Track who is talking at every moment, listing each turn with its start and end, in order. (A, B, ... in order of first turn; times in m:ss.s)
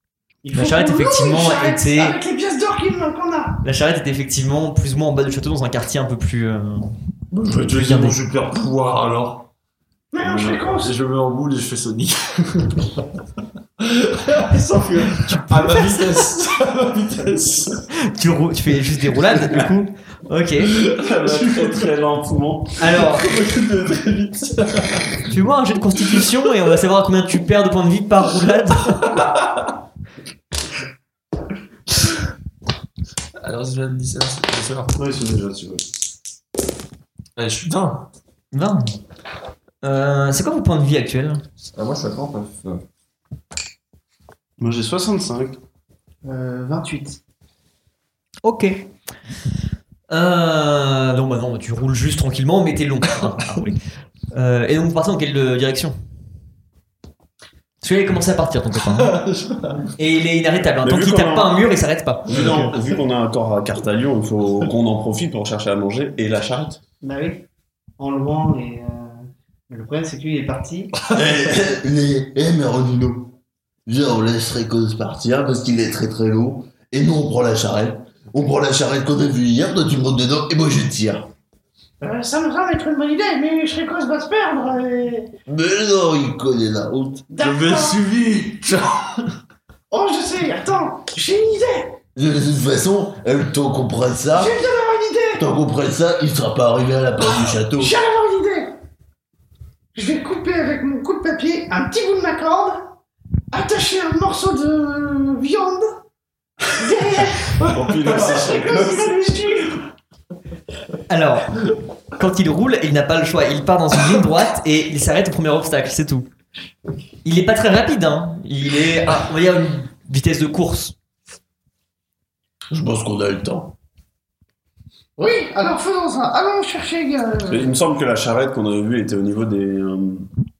0:00.4-0:03.6 A
0:00.5-0:02.2 B
0:03.6-0:06.9 B
0:07.3-0:09.5 C
0:07.7-0:08.2 B
0:10.1-0:10.9 A
0:10.2-0:13.0 C
0:13.8-0:17.8 C
0:15.2-0:16.3 B
0:18.0-0:20.7 B
0:20.7-0:21.9 C
0:20.9-0:22.9 D
0:22.8-0:23.3 B
0:23.0-0:25.2 C
0:25.3-0:29.3 B
0:29.0-0:29.6 C
0:33.4-0:35.0 C
0:35.0-0:35.8 D
0:37.4-0:38.1 C
0:38.5-0:38.9 B
0:39.8-0:41.4 B
0:41.7-0:42.8 C
0:44.6-0:45.6 D
0:46.2-0:47.2 E
0:48.4-0:48.8 B
0:50.1-0:53.8 B
0:54.3-0:56.0 B
0:57.8-0:59.1 B
0:58.9-0:59.9 C
1:00.0-1:02.6 B
1:00.8-1:01.6 D
1:02.2-1:06.8 D
1:02.3-1:02.7 C
1:07.0-1:07.4 E
1:08.0-1:11.0 E
1:11.1-1:13.3 F
1:13.8-1:21.3 F
1:22.0-1:25.3 A
1:25.4-1:27.3 F
1:27.3-1:28.0 A
1:27.4-1:29.3 C
1:29.9-1:32.0 A
1:32.1-1:34.5 F
1:34.3-1:35.4 A
1:35.4-1:37.9 F
1:37.8-1:38.7 A
1:39.9-1:42.9 A
1:43.5-1:45.9 A
1:46.7-1:49.8 A
1:47.6-1:48.4 C
1:47.7-1:49.1 D
1:51.1-1:51.6 B
1:52.2-1:56.3 B
1:57.2-2:00.9 B
2:02.7-2:03.7 F
2:05.2-2:07.7 A
2:07.5-2:10.3 D